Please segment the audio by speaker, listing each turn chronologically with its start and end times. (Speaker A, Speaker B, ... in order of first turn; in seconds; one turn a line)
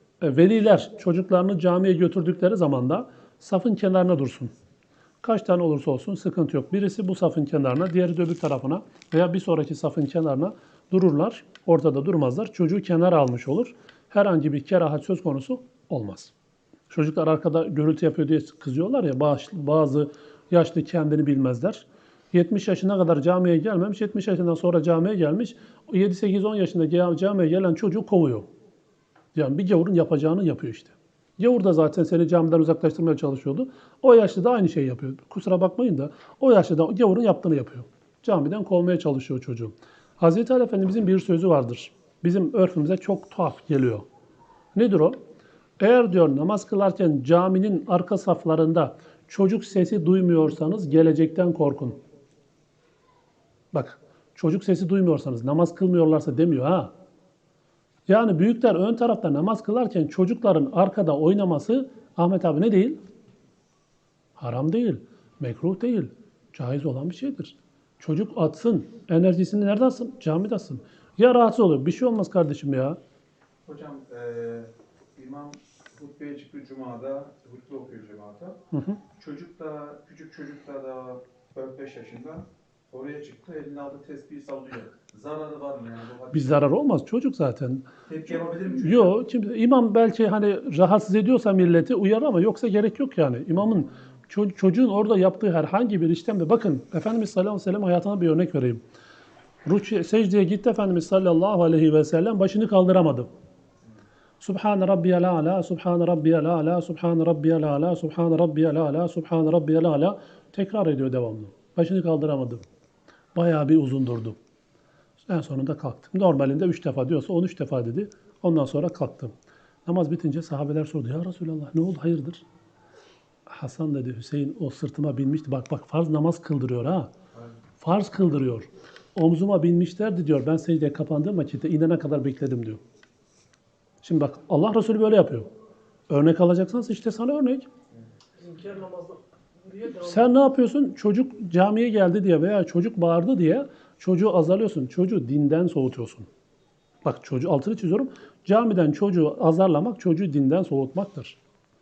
Speaker A: 0.2-4.5
Speaker A: 5.2-16.3
Speaker A: 16.9-28.5
Speaker A: 29.3-44.0
Speaker A: 44.7-45.2
Speaker A: 45.8-52.0
Speaker A: 53.7-56.9
Speaker A: 58.1-63.0
Speaker A: 64.3-73.0
Speaker B: 73.6-86.6
Speaker A: 78.7-79.0
Speaker A: 86.3-87.9
Speaker B: 88.0-89.1
Speaker A: 88.8-98.8
Speaker A: 99.6-103.3
Speaker A: 104.4-112.6
Speaker A: 113.3-114.4
Speaker A: 115.2-119.3
Speaker A: 119.8-122.4
Speaker A: 123.5-127.1
Speaker A: 127.8-132.8
Speaker A: 134.0-135.5
Speaker A: 136.1-137.7
Speaker C: 138.4-140.4
Speaker A: 140.0-146.3
Speaker A: 147.0-151.4